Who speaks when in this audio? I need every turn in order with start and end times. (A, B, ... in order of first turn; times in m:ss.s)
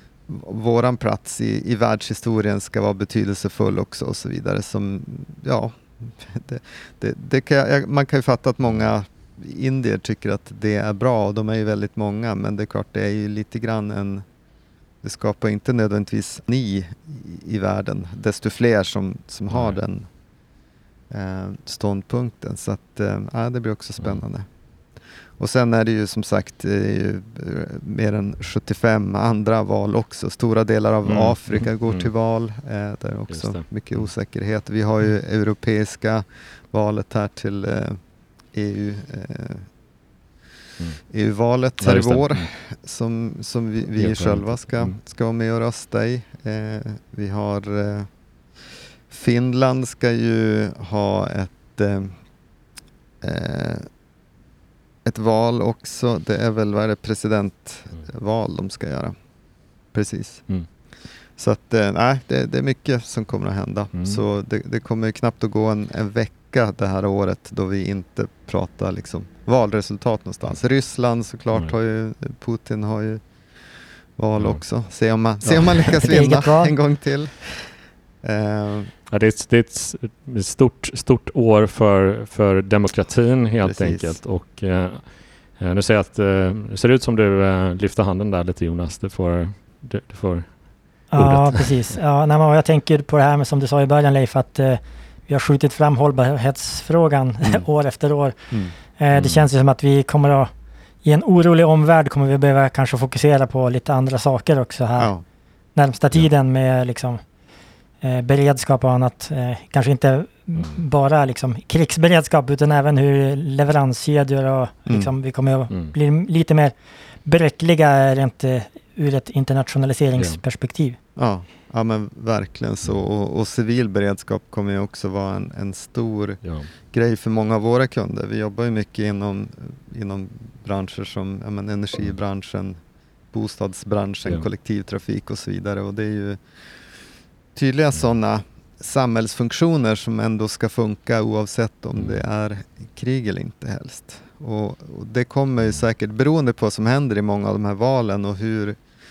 0:00.3-0:14.2 A
0:15.0-0:20.1 A
0:19.5-0:19.8 B
0:21.1-0:24.5 A
0:25.4-0:38.0 A
0:31.0-0:32.1 B
0:33.3-0:34.1 B
0:38.5-0:39.6 A
0:41.1-0:48.1 A
0:41.8-0:42.5 B
0:44.0-0:45.0 B
0:49.1-0:52.1 A
0:53.2-0:53.9 A
0:55.0-0:59.1 A
0:59.9-1:00.4 A
1:01.4-1:13.2 A
1:03.9-1:04.2 B
1:14.2-1:17.6 A
1:15.4-1:16.1 B
1:16.0-1:16.7 C
1:18.2-1:18.9 A
1:19.1-1:25.0 B
1:23.6-1:24.1 A
1:25.6-1:30.5 B
1:31.1-1:38.4 C
1:31.1-1:31.7 B
1:39.0-1:40.5 C
1:39.1-1:39.4 B
1:41.0-1:45.1 C
1:45.0-1:45.2 A
1:45.8-1:47.2 C
1:48.0-1:56.7 C
1:50.6-1:50.8 B
1:54.9-1:55.1 A
1:57.2-2:01.0 C
2:01.2-2:06.4 A
2:06.4-2:06.7 B
2:06.9-2:12.8 A
2:13.3-2:16.4 A
2:17.5-2:28.8 A
2:22.0-2:22.2 B